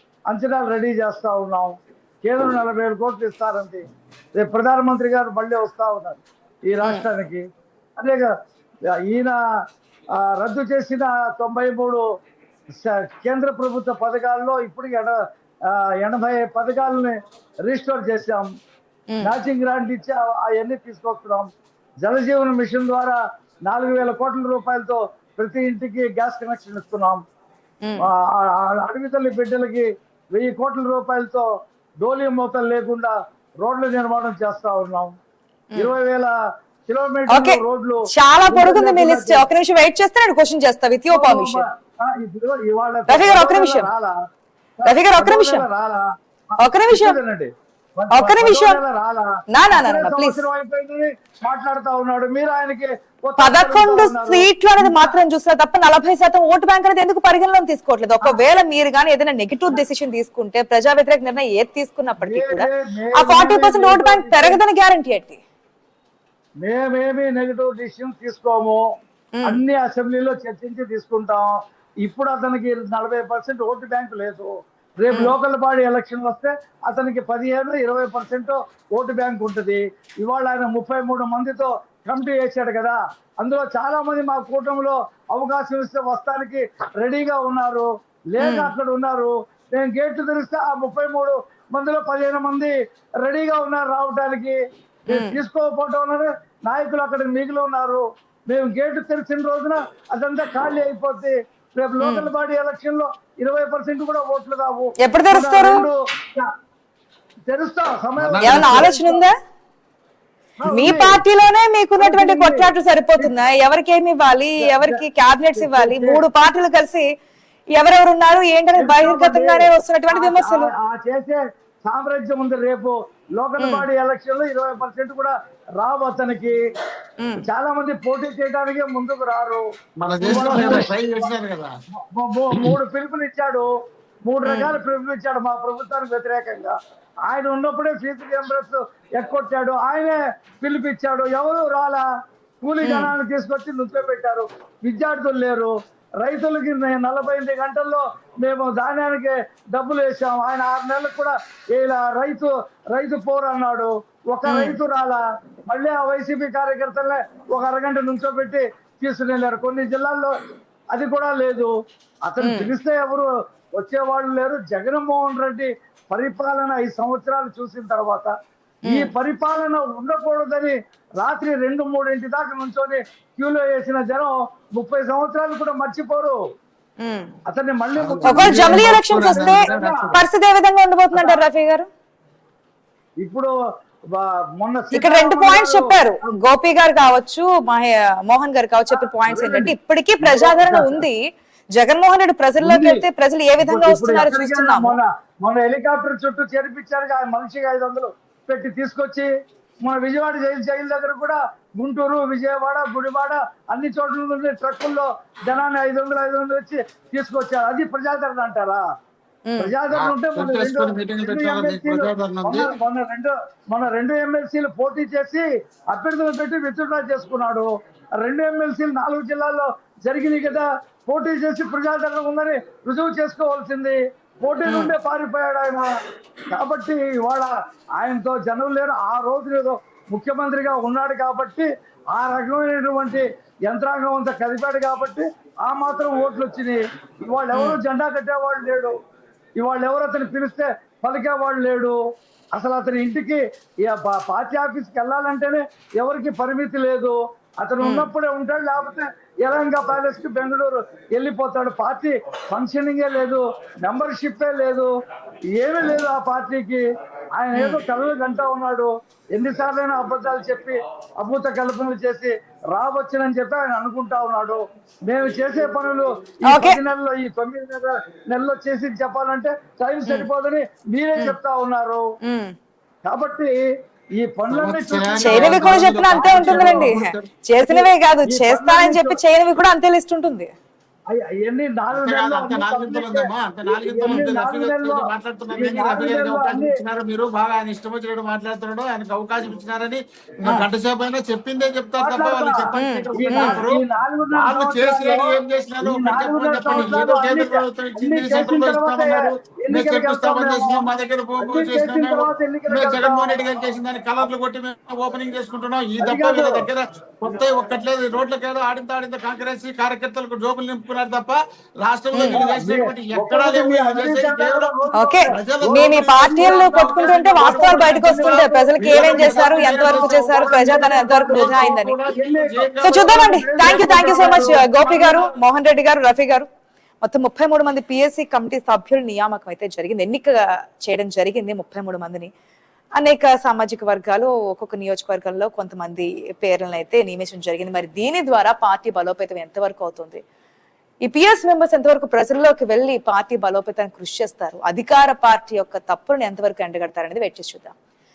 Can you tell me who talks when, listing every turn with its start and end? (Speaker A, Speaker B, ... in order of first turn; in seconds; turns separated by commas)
Speaker A: 0.3-8.3, Speaker B: 6.8-7.1, Speaker A: 9.0-9.4, Speaker A: 10.1-12.0, Speaker A: 12.8-18.5, Speaker A: 19.2-27.2, Speaker A: 28.0-31.5, Speaker A: 32.0-35.1, Speaker A: 35.8-36.3, Speaker A: 36.9-39.4, Speaker B: 37.3-41.6, Speaker A: 41.1-44.2, Speaker B: 43.1-43.9, Speaker A: 44.8-55.1, Speaker B: 44.8-45.6, Speaker B: 46.6-47.2, Speaker B: 48.1-48.8, Speaker B: 49.5-50.4, Speaker B: 53.4-65.4, Speaker A: 62.2-64.6, Speaker A: 66.6-68.8, Speaker B: 69.3-69.6, Speaker A: 69.4-94.6, Speaker B: 88.4-88.7, Speaker B: 95.1-95.4, Speaker A: 95.1-106.5, Speaker B: 102.0-102.3, Speaker B: 105.0-105.8, Speaker A: 107.5-109.2, Speaker C: 108.2-108.9, Speaker B: 108.4-109.3, Speaker A: 110.6-111.2, Speaker B: 110.7-117.1, Speaker A: 112.0-112.7, Speaker A: 114.6-115.0, Speaker A: 115.5-116.2, Speaker B: 117.7-120.7, Speaker A: 118.8-126.6, Speaker B: 123.6-123.8, Speaker B: 127.2-127.5, Speaker A: 127.4-129.6, Speaker C: 130.0-131.7, Speaker A: 130.2-131.2, Speaker A: 132.0-133.7, Speaker A: 134.2-136.8, Speaker B: 134.4-134.7, Speaker A: 137.3-142.0, Speaker A: 142.6-160.3, Speaker B: 142.8-143.1, Speaker B: 154.4-154.8, Speaker A: 160.9-161.7, Speaker A: 162.2-168.3, Speaker B: 162.4-162.7, Speaker B: 168.8-169.1, Speaker A: 168.8-176.4, Speaker B: 177.0-177.3, Speaker A: 177.5-180.1, Speaker C: 177.9-180.2, Speaker B: 178.2-181.9, Speaker A: 181.1-181.4, Speaker A: 183.2-183.5, Speaker A: 184.1-185.9, Speaker B: 184.9-195.0, Speaker A: 188.9-191.0, Speaker A: 192.6-193.0, Speaker A: 193.6-199.3, Speaker A: 199.8-208.8, Speaker B: 209.4-209.7, Speaker A: 209.6-217.7, Speaker C: 209.9-212.8, Speaker A: 218.2-225.9, Speaker B: 224.6-224.9, Speaker A: 226.5-238.9, Speaker B: 237.5-237.8, Speaker A: 239.6-242.0, Speaker A: 242.5-254.9, Speaker B: 247.8-248.1, Speaker A: 255.5-256.8, Speaker A: 257.4-272.0, Speaker B: 257.5-257.8, Speaker B: 266.4-266.8, Speaker B: 272.2-272.5, Speaker A: 273.0-276.9, Speaker C: 274.5-277.3, Speaker B: 275.2-280.5, Speaker A: 277.7-279.2, Speaker A: 281.1-286.8, Speaker C: 281.9-314.7, Speaker A: 292.0-300.8, Speaker B: 292.8-293.6, Speaker A: 301.4-303.4, Speaker A: 306.0-306.6, Speaker B: 312.1-312.4, Speaker A: 312.3-324.6, Speaker B: 314.9-321.9, Speaker C: 315.3-325.3, Speaker B: 322.8-326.5, Speaker B: 327.0-332.3, Speaker B: 332.9-340.2, Speaker B: 341.0-347.7